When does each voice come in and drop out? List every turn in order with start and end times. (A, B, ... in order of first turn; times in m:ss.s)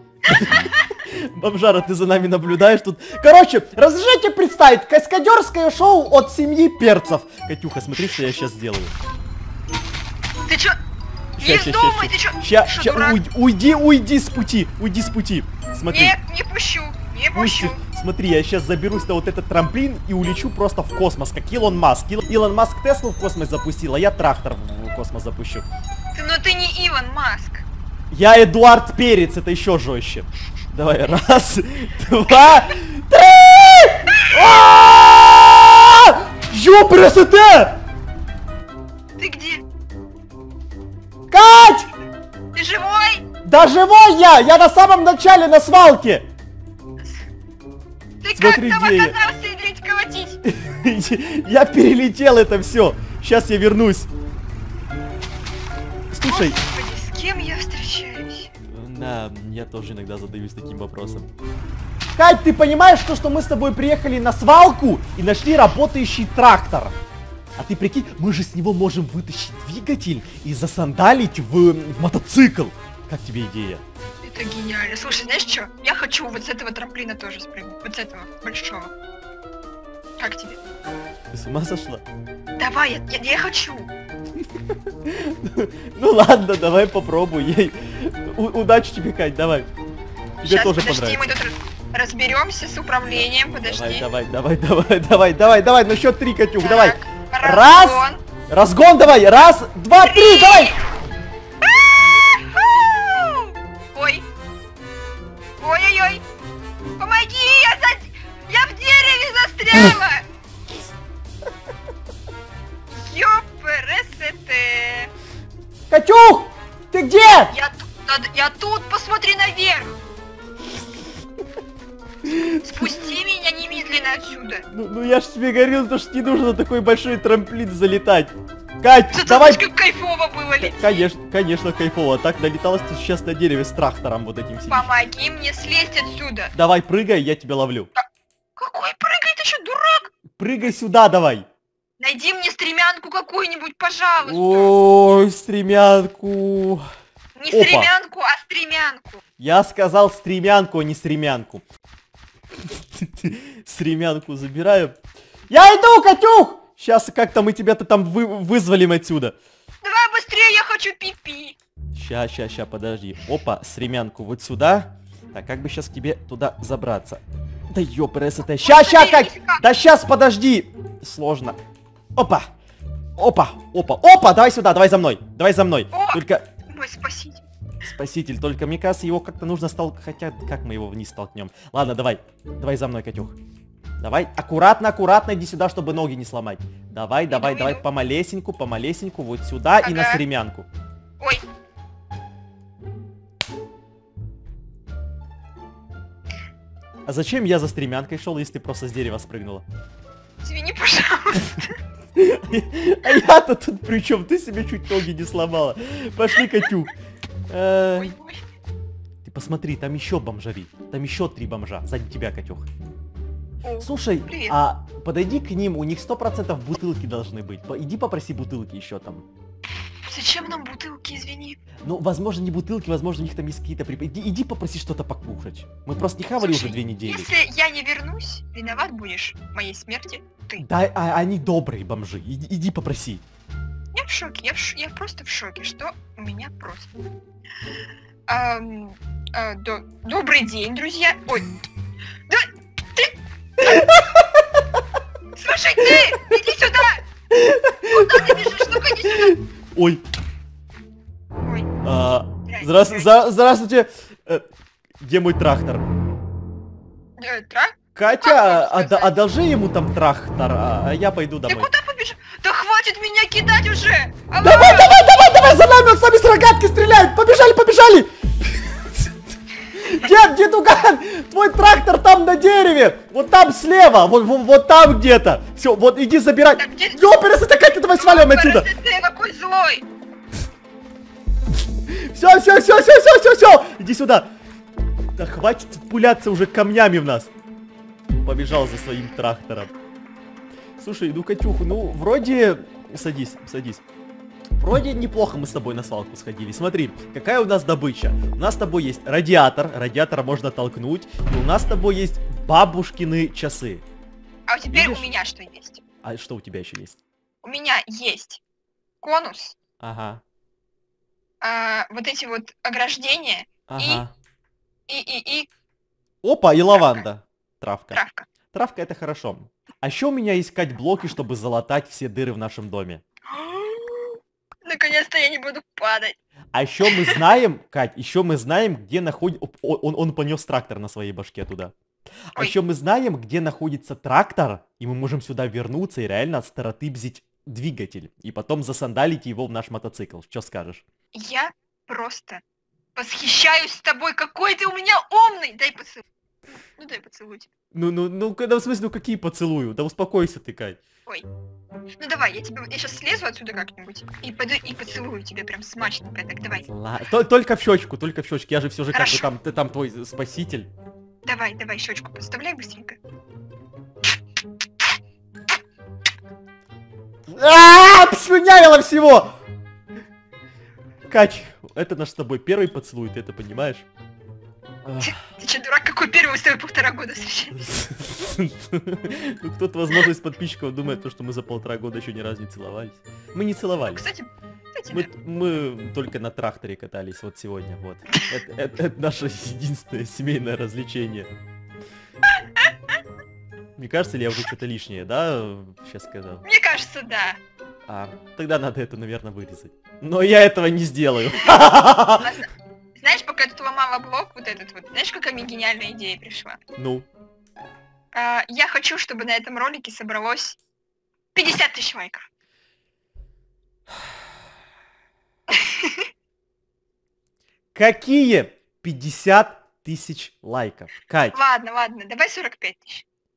0:00.2-0:08.9 A
0:10.4-0:10.8 B
0:11.4-0:13.2 B
0:11.4-0:16.2 A
0:15.9-0:17.8 B
0:17.3-0:25.6 A
0:26.1-0:27.6 B
0:28.1-0:37.8 A
0:39.2-0:39.6 B
0:41.3-0:41.9 A
0:42.5-0:43.2 B
0:43.4-0:46.2 A
0:48.2-0:50.4 B
0:48.3-0:49.2 A
0:50.4-0:54.1 A
0:56.1-0:56.6 A
0:56.2-0:58.5 B
0:58.7-1:01.3 A
1:02.2-1:07.0 A
1:07.6-1:13.8 A
1:14.2-1:18.9 B
1:20.2-1:20.6 B
1:21.3-1:22.0 A
1:22.6-1:23.9 B
1:25.0-1:29.7 A
1:30.4-1:31.3 A
1:30.4-1:34.1 B
1:33.1-1:40.7 A
1:36.6-1:38.2 B
1:40.0-1:40.8 B
1:41.6-1:44.2 B
1:45.6-1:46.2 B
1:47.0-1:50.2 B
1:52.9-1:55.1 B
1:55.9-1:57.5 A
1:57.5-2:00.0 B
2:02.2-2:02.9 A
2:02.6-2:04.6 B
2:04.7-2:09.6 A
2:09.1-2:11.1 B
2:10.6-2:14.9 A
2:14.7-2:16.5 B
2:16.5-2:17.9 A
2:18.6-2:20.1 B
2:20.4-2:21.4 A
2:22.0-2:24.7 B
2:24.2-2:26.8 A
2:27.4-2:29.2 B
2:27.5-2:27.9 A
2:29.4-2:31.6 A
2:32.6-2:35.0 A
2:35.5-2:39.3 A
2:39.8-2:41.6 B
2:41.9-2:51.6 A
2:48.6-2:49.6 B
2:52.2-2:52.5 A
2:53.2-2:56.5 A
2:55.9-2:57.4 B
2:57.8-3:03.3 A
3:04.0-3:10.7 A
3:07.3-3:07.8 B
3:09.8-3:10.2 B
3:17.0-3:19.6 A
3:20.4-3:21.7 B
3:22.2-3:26.9 A
3:26.4-3:26.7 B
3:27.5-3:28.1 A
3:27.9-3:28.4 B
3:29.2-3:32.7 A
3:33.6-3:34.6 B
3:33.8-3:39.2 A
3:40.0-3:41.6 B
3:41.8-3:47.3 A
3:46.4-3:50.6 B
3:50.6-3:53.2 A
3:53.9-3:56.9 B
3:58.3-4:01.5 B
4:02.3-4:04.0 B
4:03.7-4:04.4 A
4:05.3-4:07.0 B
4:07.3-4:10.0 A
4:07.8-4:09.4 B
4:11.4-4:11.7 B
4:11.8-4:14.4 A
4:12.4-4:13.1 B
4:15.0-4:15.8 A
4:17.2-4:19.1 B
4:17.9-4:21.7 A
4:21.4-4:25.0 B
4:24.4-4:29.1 A
4:29.7-4:38.7 A
4:36.6-4:37.0 B
4:37.9-4:39.8 B
4:41.9-4:44.3 A
4:45.2-4:47.3 A
4:48.2-4:49.7 A
4:50.8-4:53.8 A
4:54.6-5:03.8 A
5:04.5-5:05.8 B
5:04.7-5:05.1 A
5:06.0-5:07.0 A
5:07.4-5:08.4 B
5:09.0-5:09.5 B
5:09.8-5:10.2 A
5:11.4-5:14.0 B
5:13.7-5:14.1 A
5:14.9-5:15.5 B
5:16.2-5:23.0 A
5:16.7-5:17.0 B
5:17.9-5:18.3 B
5:23.3-5:26.2 B
5:26.5-5:31.7 A
5:26.8-5:27.2 B
5:32.3-5:40.8 A
5:41.1-5:42.4 B
5:43.0-5:46.0 B
5:46.8-5:47.5 B
5:47.7-5:50.8 A
5:52.0-5:56.6 B
5:56.4-6:00.7 A
5:58.9-5:59.3 B
6:01.2-6:03.0 B
6:07.3-6:09.3 A
6:11.1-6:13.8 A
6:14.8-6:15.2 A
6:15.0-6:17.6 B
6:17.5-6:24.0 A
6:23.9-6:25.1 B
6:24.9-6:31.3 A
6:32.4-6:33.0 B
6:33.8-6:36.4 A
6:36.4-6:37.4 B
6:37.9-6:42.3 A
6:41.3-6:46.6 B
6:46.8-6:47.1 A
6:48.1-6:50.6 B
6:51.3-6:52.3 B
6:55.5-6:56.1 B
6:57.7-7:01.4 A
7:01.3-7:03.0 B